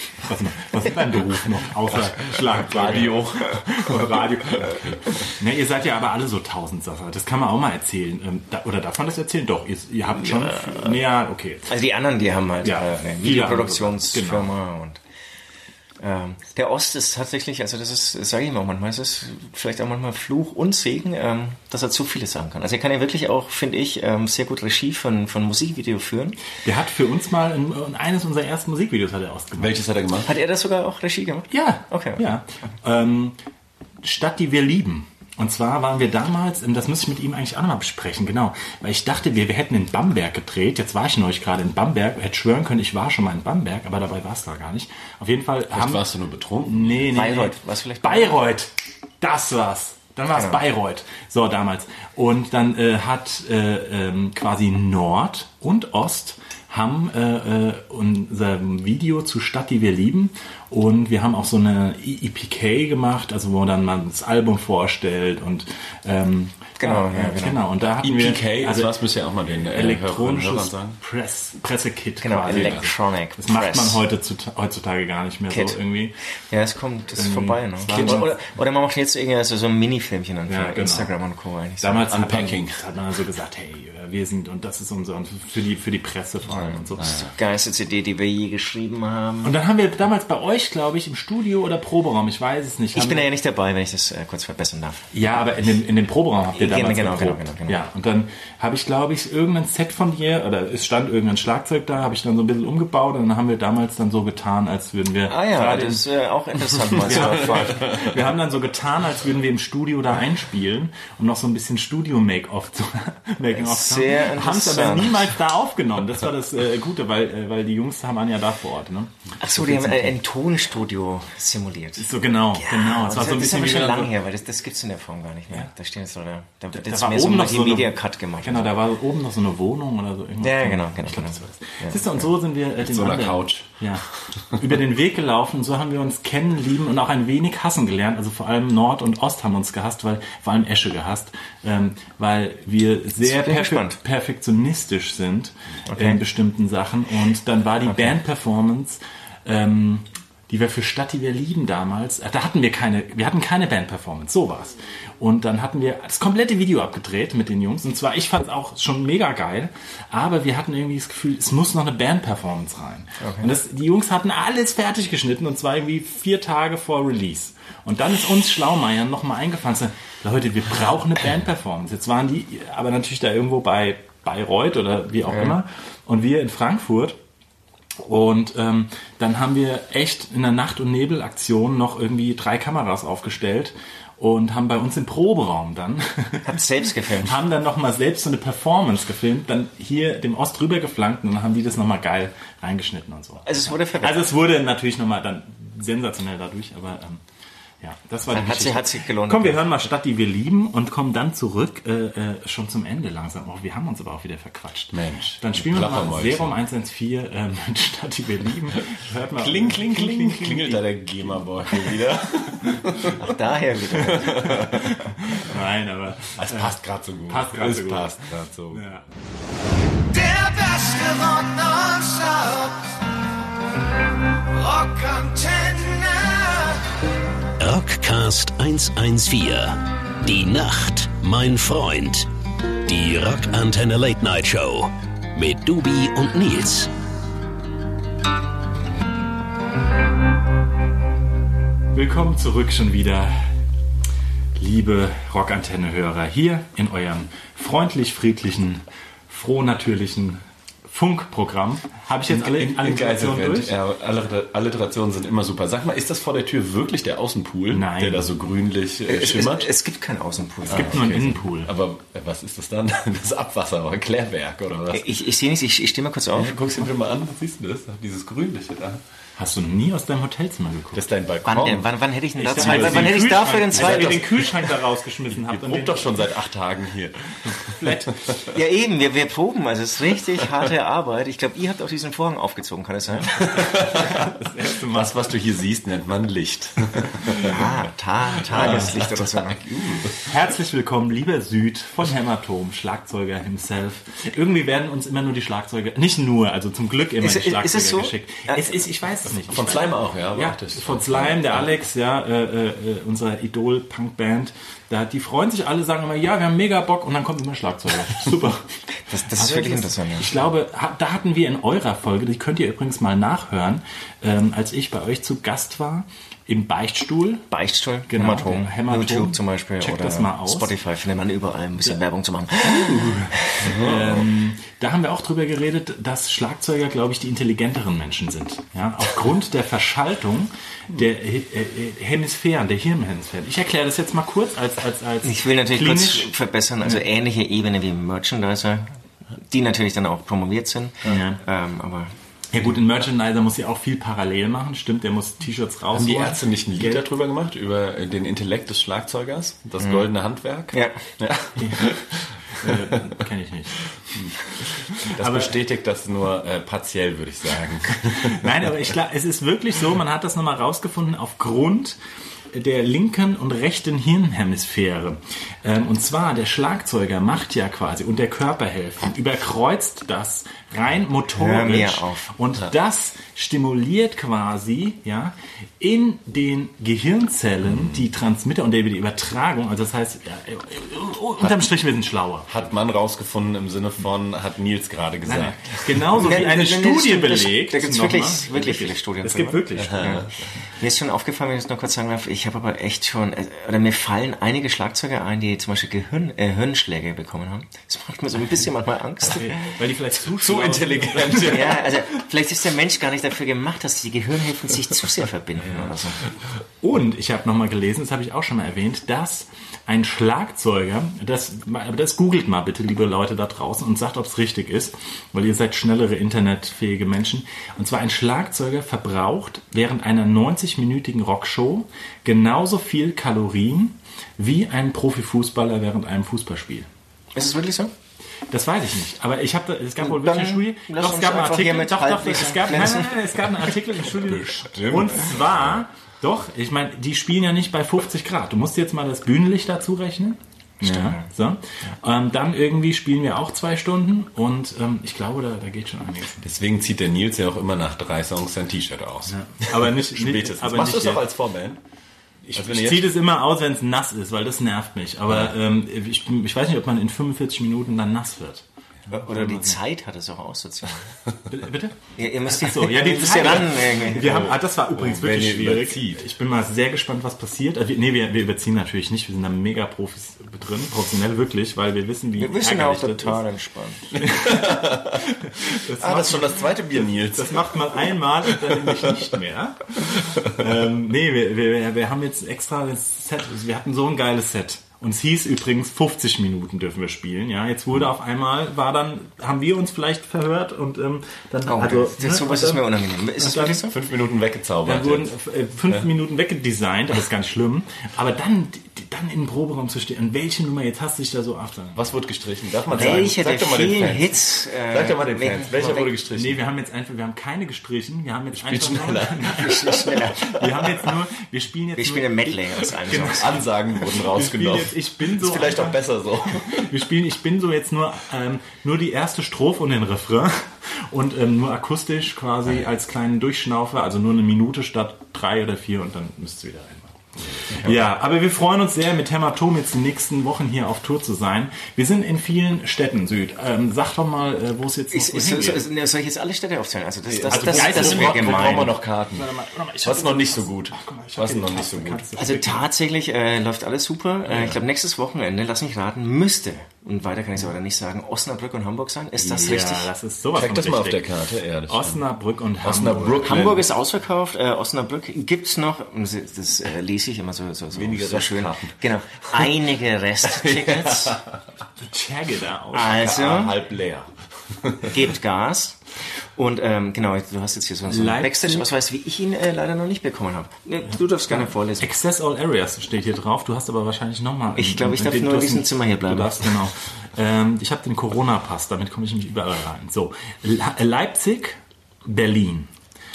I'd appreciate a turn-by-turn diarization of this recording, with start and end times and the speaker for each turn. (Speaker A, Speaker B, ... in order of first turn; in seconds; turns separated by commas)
Speaker A: 0.2-11.7, Speaker B: 2.4-4.9, Speaker C: 10.2-11.0, Speaker C: 11.7-15.0, Speaker A: 12.6-14.5, Speaker C: 16.0-26.4, Speaker A: 26.6-29.8, Speaker B: 29.6-30.3, Speaker C: 30.2-32.2, Speaker A: 31.5-33.4, Speaker A: 34.0-46.1, Speaker B: 45.7-47.2, Speaker A: 46.6-69.0, Speaker C: 47.1-48.4, Speaker C: 50.4-50.6, Speaker C: 66.8-67.6, Speaker B: 68.0-71.0, Speaker A: 69.7-76.1, Speaker C: 72.2-74.0, Speaker B: 72.5-72.9, Speaker C: 75.5-75.8, Speaker C: 76.5-82.1, Speaker A: 77.2-78.3, Speaker A: 80.5-81.1, Speaker A: 81.8-87.1, Speaker B: 82.1-82.8, Speaker B: 87.0-87.3, Speaker C: 87.0-89.5, Speaker A: 89.4-93.3, Speaker C: 92.9-95.0, Speaker A: 95.1-106.0, Speaker C: 96.5-97.8, Speaker C: 105.3-107.9, Speaker A: 107.0-120.2, Speaker B: 107.6-108.1, Speaker C: 113.5-115.3, Speaker C: 119.4-128.7, Speaker A: 122.0-124.1, Speaker A: 126.7-177.2, Speaker C: 130.4-132.3, Speaker B: 132.8-133.8, Speaker C: 143.2-144.0, Speaker C: 145.9-146.2, Speaker C: 163.2-163.5, Speaker A: 178.0-186.6, Speaker C: 186.4-187.4, Speaker A: 187.2-197.2, Speaker C: 193.5-194.3, Speaker A: 197.8-211.0, Speaker C: 198.3-199.6, Speaker B: 204.9-206.6, Speaker B: 209.4-213.4, Speaker A: 211.7-212.0, Speaker A: 212.6-213.0, Speaker C: 213.2-215.0, Speaker B: 214.0-214.9, Speaker A: 214.4-218.2, Speaker B: 216.4-218.9, Speaker A: 218.7-219.0, Speaker D: 220.1-223.0, Speaker D: 224.5-226.9, Speaker E: 227.6-232.3, Speaker E: 232.8-236.9, Speaker A: 241.9-243.5, Speaker A: 244.6-253.7, Speaker B: 252.3-259.7, Speaker A: 257.7-258.3, Speaker C: 259.1-261.1, Speaker B: 260.7-265.2, Speaker A: 260.7-261.7, Speaker C: 264.9-266.6, Speaker B: 266.3-269.0, Speaker A: 269.4-271.0, Speaker B: 270.9-272.0, Speaker C: 271.4-274.2, Speaker A: 272.4-276.3, Speaker B: 272.5-274.6, Speaker B: 275.3-278.4, Speaker A: 277.5-278.2, Speaker C: 278.5-283.4, Speaker B: 283.3-284.4, Speaker A: 283.8-285.2, Speaker B: 284.9-287.7, Speaker C: 287.4-289.8, Speaker A: 288.5-288.9, Speaker B: 288.5-290.2, Speaker A: 290.2-317.5, Speaker C: 297.2-298.8, Speaker B: 299.5-301.7, Speaker C: 309.1-310.3, Speaker C: 317.5-323.6, Speaker A: 318.1-320.7, Speaker A: 322.6-336.3, Speaker B: 323.6-324.3, Speaker C: 335.2-342.1, Speaker A: 341.1-341.4, Speaker A: 342.5-347.0, Speaker B: 345.9-353.1, Speaker C: 350.7-351.0, Speaker A: 351.6-351.9, Speaker A: 352.6-353.8, Speaker A: 354.7-355.5, Speaker B: 355.0-358.4, Speaker A: 358.1-362.0, Speaker A: 362.5-382.6, Speaker C: 371.4-372.3, Speaker B: 377.7-378.0, Speaker B: 382.5-386.1, Speaker A: 385.3-390.2, Speaker C: 386.2-399.7, Speaker B: 389.8-390.5, Speaker A: 399.3-401.8, Speaker B: 400.3-402.0, Speaker C: 401.4-406.2, Speaker A: 406.8-426.9, Speaker C: 427.4-427.9, Speaker A: 428.5-446.4, Speaker C: 430.0-433.1, Speaker B: 434.2-435.8, Speaker C: 440.8-441.2, Speaker B: 446.4-451.8, Speaker A: 449.3-451.2, Speaker A: 452.5-459.8, Speaker B: 452.5-453.1, Speaker C: 459.1-461.1, Speaker A: 461.5-473.4, Speaker C: 462.2-464.3, Speaker B: 464.2-466.3, Speaker C: 472.4-474.1, Speaker A: 474.1-493.8, Speaker B: 474.2-477.8, Speaker B: 478.4-479.1, Speaker B: 480.0-480.6, Speaker C: 491.7-494.0, Speaker B: 493.9-495.3, Speaker A: 494.9-502.1, Speaker B: 501.9-506.6, Speaker A: 502.9-503.3, Speaker C: 502.9-506.1, Speaker A: 506.3-535.9, Speaker B: 508.6-510.1, Speaker C: 509.5-510.6, Speaker C: 512.0-513.5, Speaker B: 513.1-516.9, Speaker B: 527.5-528.0, Speaker C: 535.1-538.9, Speaker B: 537.3-539.5, Speaker A: 537.5-542.9, Speaker B: 540.0-542.3, Speaker C: 542.4-550.1, Speaker B: 544.5-544.8, Speaker A: 549.4-551.3, Speaker B: 550.5-552.2, Speaker A: 551.9-553.7, Speaker B: 552.8-553.9, Speaker C: 553.5-561.4, Speaker B: 557.9-559.0, Speaker B: 560.5-561.6, Speaker A: 562.0-563.2, Speaker C: 562.9-563.8, Speaker B: 563.0-565.3, Speaker C: 565.0-566.0, Speaker C: 566.5-572.1, Speaker A: 568.1-568.9, Speaker A: 571.5-582.9, Speaker C: 574.8-576.7